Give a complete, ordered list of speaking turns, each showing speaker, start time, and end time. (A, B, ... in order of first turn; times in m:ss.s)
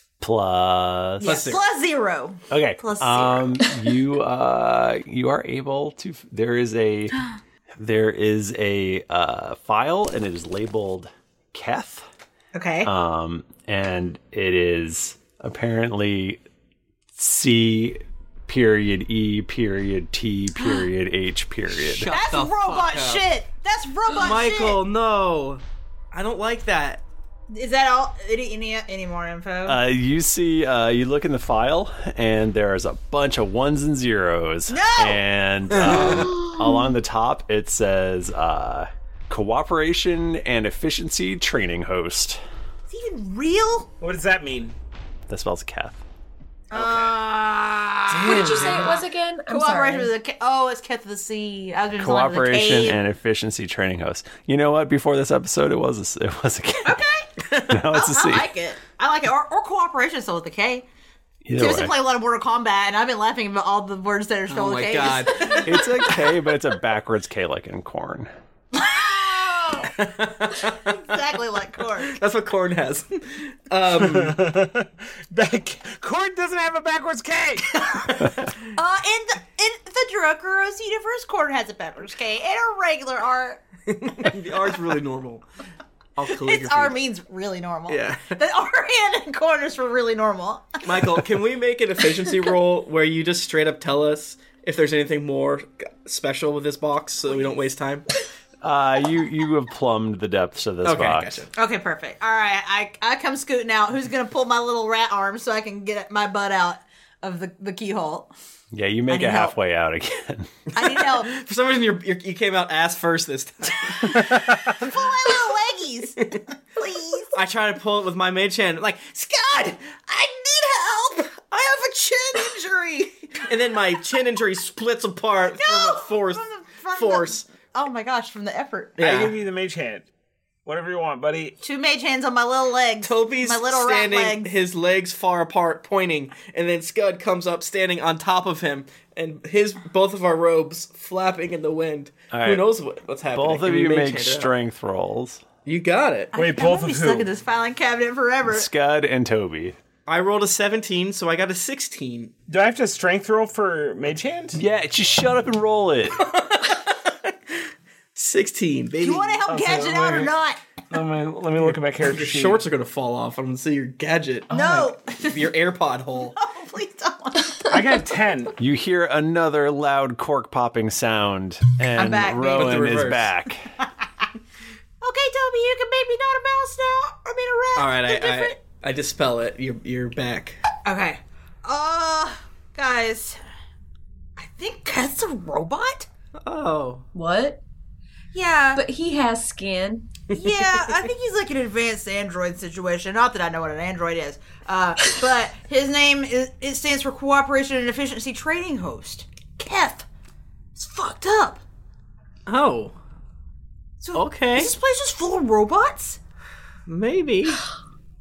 0:00.2-0:01.6 A
0:01.2-0:01.7 B
0:01.2-0:03.7 C
0:02.5-0:07.2 A
0:07.8-0:12.0 A
0:12.5-0:12.9 C
0:12.8-0:16.4 A
0:17.2-0:22.1 A
0:21.8-0:23.3 B
0:22.1-0:24.8 C
0:24.1-0:27.0 B
0:27.5-0:29.8 C
0:29.7-0:42.4 A
0:34.7-0:35.2 C
0:35.8-0:36.3 B
0:42.9-0:43.9 C
0:44.0-0:44.8 D
0:45.3-0:46.0 A
0:46.7-0:53.0 C
0:46.8-0:47.1 B
0:48.1-0:50.1 E
0:48.4-0:48.7 B
0:52.0-0:57.0 A
0:56.8-1:00.9 C
0:57.7-0:58.5 A
1:01.4-1:02.0 A
1:01.6-1:06.2 C
1:04.5-1:05.8 B
1:05.6-1:08.3 A
1:08.7-1:10.0 C
1:10.0-1:10.9 B
1:10.6-1:12.2 C
1:12.0-1:14.4 B
1:13.9-1:18.1 D
1:18.7-1:23.6 C
1:23.9-1:25.4 B
1:26.2-1:27.0 B
1:26.3-1:31.2 C
1:27.9-1:28.4 B
1:30.8-1:38.0 B
1:37.3-1:37.6 C
1:38.6-1:41.5 A
1:40.8-1:41.5 B
1:41.6-1:48.3 C
1:48.7-1:50.5 A
1:49.1-1:49.5 C
1:50.7-1:51.3 C
1:50.8-1:54.3 B
1:53.9-1:57.4 C
1:57.3-1:59.8 B
1:59.9-2:03.5 C
2:03.4-2:07.5 B
2:05.6-2:09.0 C
2:09.0-2:09.3 B
2:09.0-2:10.1 D
2:10.6-2:11.6 D
2:11.6-2:14.5 C
2:13.0-2:24.5 B
2:22.3-2:22.6 A
2:23.3-2:25.4 A
2:25.6-2:26.3 B
2:26.3-2:28.7 C
2:26.3-2:27.3 D
2:28.5-2:29.8 A
2:30.1-2:32.3 B
2:32.5-2:34.6 D
2:34.6-2:36.2 A
2:38.2-2:39.4 B
2:39.0-2:40.6 C
2:39.5-2:40.3 D
2:40.9-2:42.6 D
2:41.6-2:44.6 B
2:44.5-2:45.6 C
2:44.5-2:44.9 D
2:45.3-2:46.4 B
2:46.2-2:47.8 C
2:47.7-2:48.5 D
2:48.6-2:53.7 A
2:52.0-2:52.8 C
2:52.5-2:53.3 B
2:55.0-2:58.6 C
2:57.8-3:00.6 B
3:00.8-3:03.4 C
3:04.4-3:06.1 C
3:06.4-3:07.0 B
3:07.1-3:07.6 E
3:08.3-3:08.8 C
3:08.8-3:10.1 E
3:10.3-3:20.1 C
3:20.8-3:21.6 C
3:22.5-3:23.0 B
3:24.0-3:26.2 C
3:24.1-3:24.8 B
3:26.9-3:27.6 B